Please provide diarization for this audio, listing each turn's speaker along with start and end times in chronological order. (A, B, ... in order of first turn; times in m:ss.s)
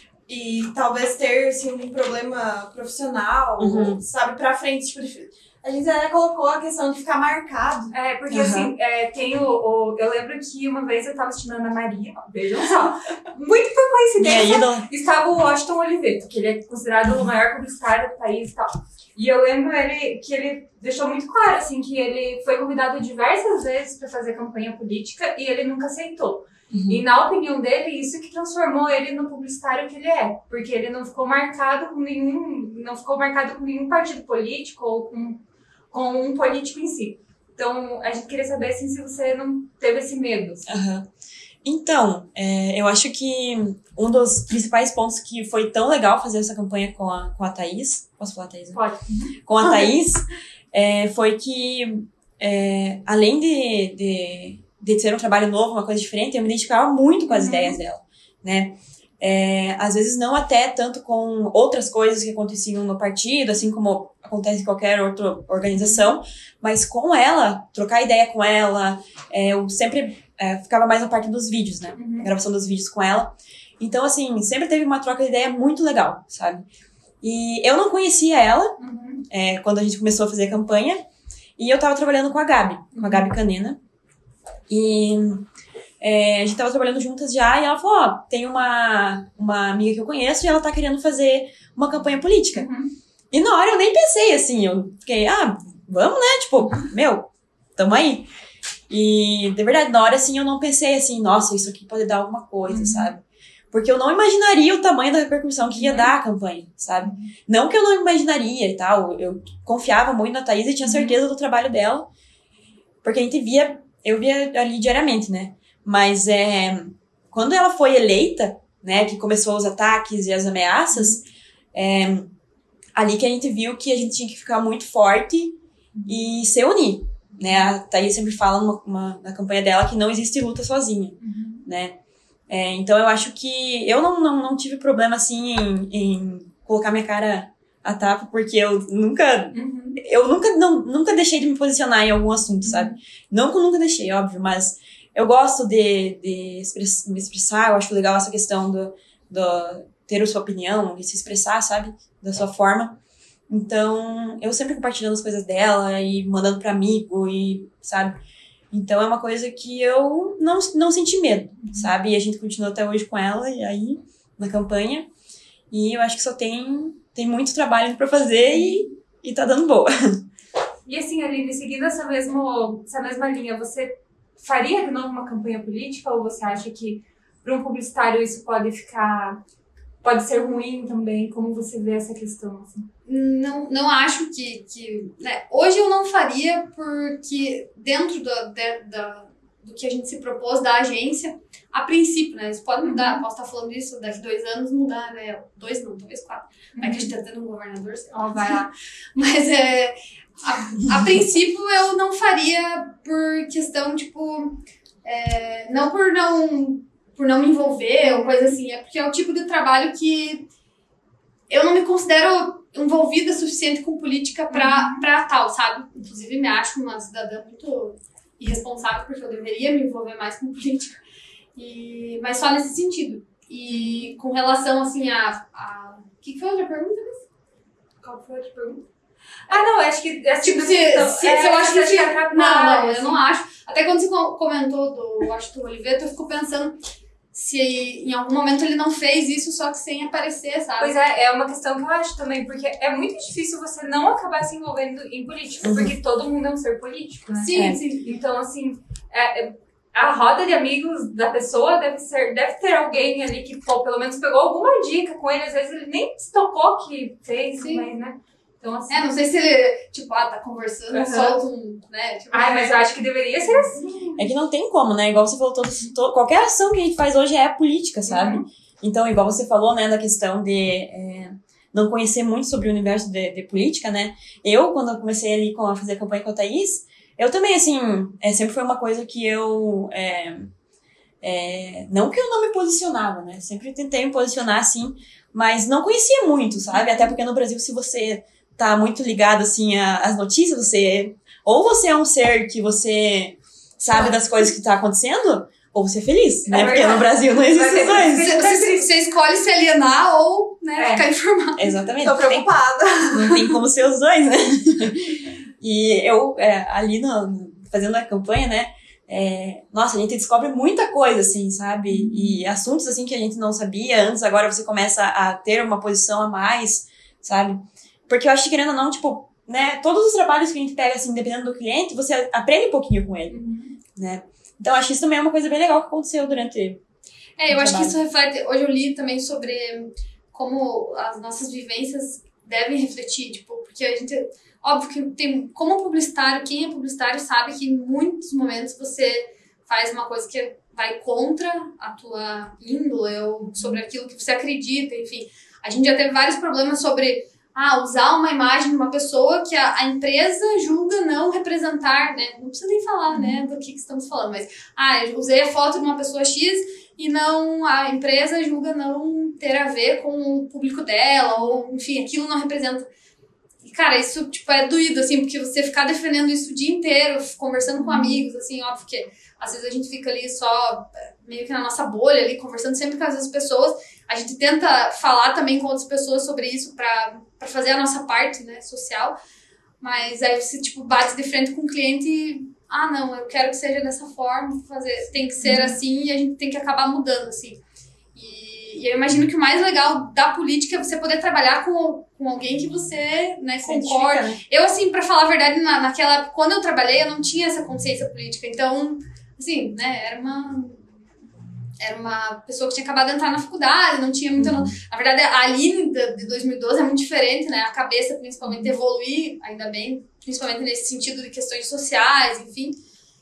0:00.3-0:07.9 A
0:03.6-0:04.0 B
0:07.9-0:40.6 C
0:08.3-0:08.7 B
0:14.2-0:14.8 B
0:26.7-0:27.0 B
0:40.6-0:41.1 B
0:41.6-0:48.8 B
0:48.7-0:49.4 C
0:49.4-1:16.6 B
0:57.3-0:57.8 C
1:05.8-1:06.1 C
1:12.0-1:12.3 C
1:17.2-1:18.8 B
1:18.8-1:19.2 C
1:19.3-1:21.0 B
1:21.6-1:23.8 B
1:22.9-1:23.3 C
1:24.7-1:25.5 B
1:26.0-1:32.7 B
1:32.5-1:32.9 C
1:33.3-1:38.3 B
1:38.9-1:52.1 B
1:42.7-1:43.1 C
1:45.8-1:46.1 C
1:47.0-1:47.3 C
1:50.8-1:51.2 C
1:53.0-2:01.2 B
2:00.9-2:01.2 C
2:01.7-2:02.3 B
2:02.9-2:12.0 B
2:05.9-2:06.2 C
2:11.2-2:11.6 C
2:12.5-2:33.0 B
2:19.5-2:20.0 C
2:22.6-2:23.0 C
2:33.5-2:38.1 B
2:38.7-2:45.1 B
2:41.6-2:41.9 C
2:45.7-2:50.2 B
2:50.8-2:59.4 C
3:00.0-3:02.9 C
3:03.0-3:30.4 D
3:12.8-3:13.2 C
3:16.8-3:17.1 C
3:18.1-3:18.6 C
3:28.0-3:28.5 C
3:31.5-3:41.0 D
3:34.5-3:35.0 C
3:41.6-3:47.2 D
3:43.7-3:44.1 C
3:48.0-3:48.8 C
3:49.5-3:53.2 C
3:50.4-3:56.8 D
3:57.3-4:00.9 D
4:00.8-4:19.1 C
4:05.6-4:05.9 B
4:07.4-4:08.0 D
4:07.5-4:07.8 B
4:17.6-4:17.9 D
4:18.9-4:22.9 D
4:20.9-4:21.4 C
4:22.3-4:23.9 C
4:23.5-4:24.1 D
4:24.2-4:40.5 B
4:28.1-4:28.4 C
4:41.2-4:58.4 B
4:53.9-4:54.1 D
4:56.5-4:58.9 C
4:58.2-5:01.7 D
5:00.8-5:01.0 C
5:01.6-5:02.5 B
5:02.0-5:03.4 A
5:03.1-5:23.4 B
5:11.9-5:12.4 C
5:23.3-5:23.8 C
5:24.0-5:26.8 B
5:27.4-6:02.8 D
5:27.5-5:27.9 B
5:53.1-5:53.4 C
6:01.3-6:01.6 C
6:03.6-6:19.2 D
6:07.8-6:08.2 C
6:19.8-6:27.6 D
6:25.4-6:25.8 C
6:28.1-6:40.8 D
6:33.6-6:34.4 B
6:41.8-6:52.8 D
6:44.4-6:44.7 B